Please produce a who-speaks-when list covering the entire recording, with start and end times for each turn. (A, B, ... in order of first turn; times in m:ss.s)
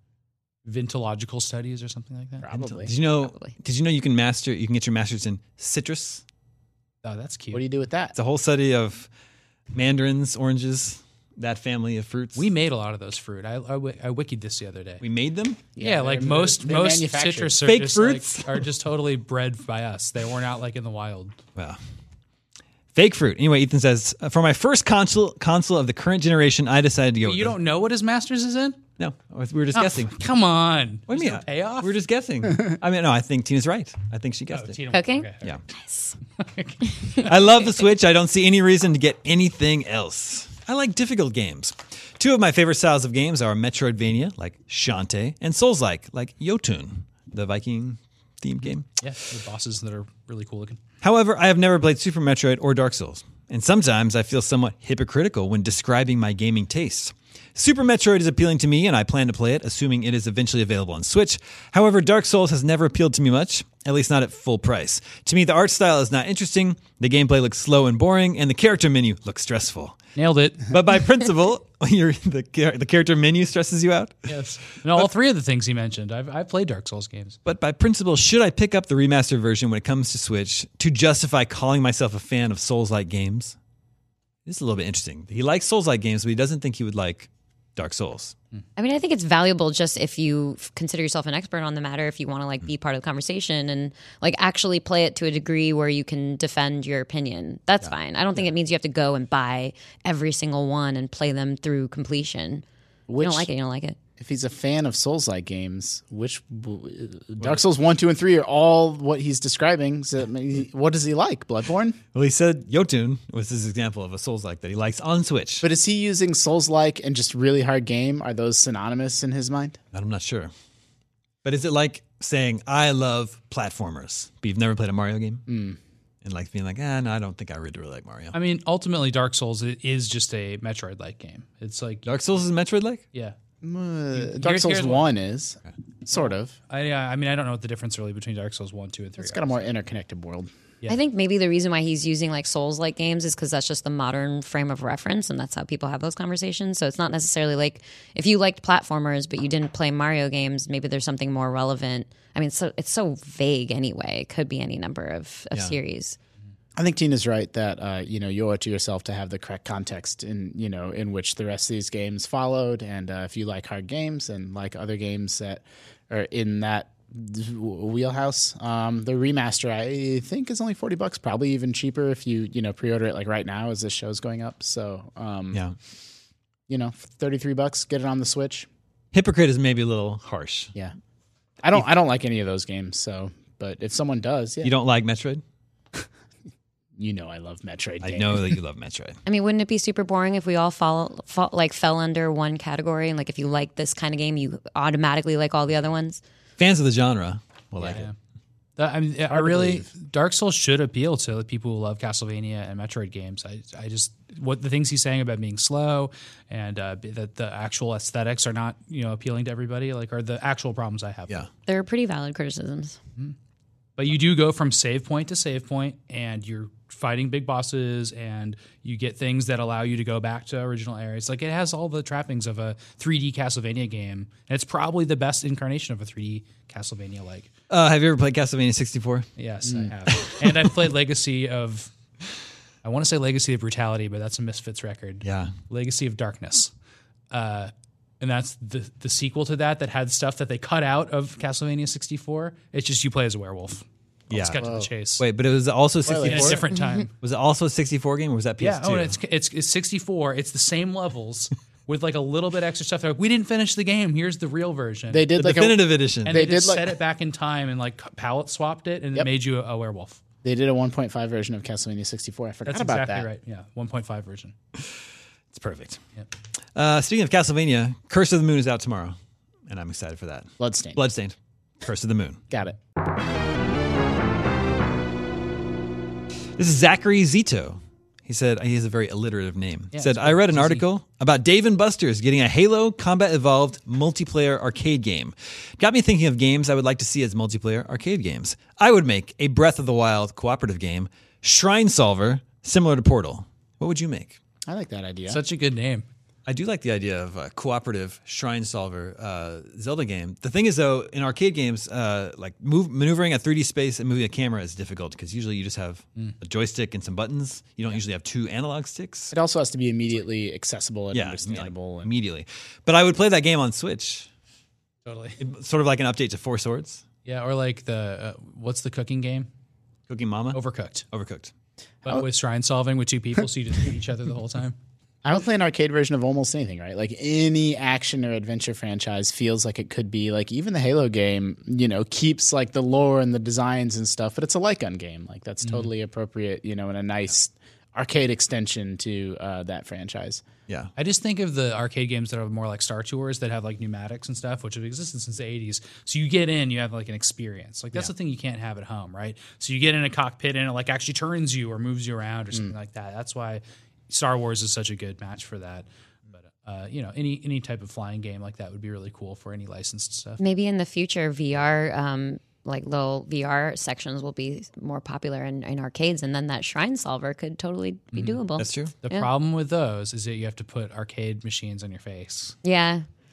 0:00.6-0:02.5 A
0:02.4-0:02.9 B
0:02.5-0:06.2 C
0:03.2-0:03.5 D
0:07.0-0:07.6 A
0:07.5-0:08.2 B
0:08.2-0:09.1 C
0:09.7-0:12.5 C
0:12.4-0:15.0 A
0:15.0-0:15.6 C
0:15.8-0:17.6 B
0:15.8-0:21.4 A
0:17.6-0:18.6 C
0:23.0-0:27.6 C
0:27.2-0:28.8 A
0:29.0-0:30.2 C
0:29.7-0:31.9 A
0:31.1-0:34.8 C
0:34.5-0:35.6 A
0:34.9-0:36.2 D
0:36.4-0:37.3 A
0:36.9-0:37.3 D
0:37.2-0:49.0 C
0:49.0-0:50.8 A
0:51.0-1:10.0 C
1:10.2-1:10.7 A
1:10.7-1:14.4 C
1:14.3-1:17.4 A
1:17.4-1:23.6 C
1:24.5-1:28.4 C
1:28.8-1:42.6 D
1:43.1-1:43.5 B
1:43.2-1:44.0 D
1:44.2-1:52.0 B
1:52.1-1:55.7 C
1:55.6-1:59.8 B
1:59.9-2:00.5 C
2:01.4-2:05.4 C
2:05.5-2:05.8 B
2:06.2-2:08.4 C
2:08.3-2:12.1 A
2:12.0-2:13.0 C
2:13.6-2:16.6 B
2:14.2-2:15.1 A
2:16.1-2:19.6 A
2:19.2-2:20.5 B
2:20.9-2:36.2 D
2:36.8-2:55.6 B
2:56.7-2:58.7 B
2:59.1-3:00.7 C
3:01.6-3:04.7 B
3:04.6-3:05.4 C
3:07.0-3:08.6 B
3:08.0-3:09.2 C
3:09.3-3:16.2 D
3:16.6-3:18.1 C
3:17.9-3:18.2 A
3:18.8-3:31.4 A
3:19.3-3:19.9 B
3:31.7-3:33.0 D
3:34.0-3:47.5 A
3:47.7-3:49.3 C
3:49.4-3:51.9 A
3:49.6-3:49.9 B
3:50.2-3:50.7 C
3:52.8-3:56.7 A
3:55.2-3:55.6 C
3:57.3-4:05.2 A
4:04.3-4:04.6 C
4:04.6-4:04.9 B
4:05.2-4:06.7 C
4:06.0-4:06.6 B
4:06.1-4:07.1 A
4:07.2-4:09.2 C
4:08.6-4:15.3 A
4:15.1-4:17.0 B
4:15.4-4:16.4 C
4:16.3-4:20.2 A
4:20.4-4:23.3 B
4:22.7-4:24.5 A
4:25.5-4:26.0 C
4:26.8-4:29.2 C
4:29.7-4:32.4 C
4:30.6-4:31.0 B
4:32.5-4:32.8 B
4:36.6-4:54.4 C
4:39.9-4:40.8 A
4:54.7-4:55.4 B
4:55.3-4:56.1 A
4:56.5-5:09.3 C
5:09.3-5:12.1 B
5:11.1-5:14.3 C
5:15.0-5:15.4 A
5:15.4-5:17.0 C
5:17.2-5:19.5 A
5:20.1-5:20.6 C
5:20.5-5:21.1 A
5:21.1-5:21.5 C
5:22.0-5:24.8 A
5:25.2-5:40.4 B
5:35.6-5:35.9 A
5:41.0-6:00.4 A
6:00.4-6:09.3 D
6:08.1-6:08.4 A
6:08.6-6:08.9 C
6:09.0-6:12.6 A
6:12.6-6:13.1 D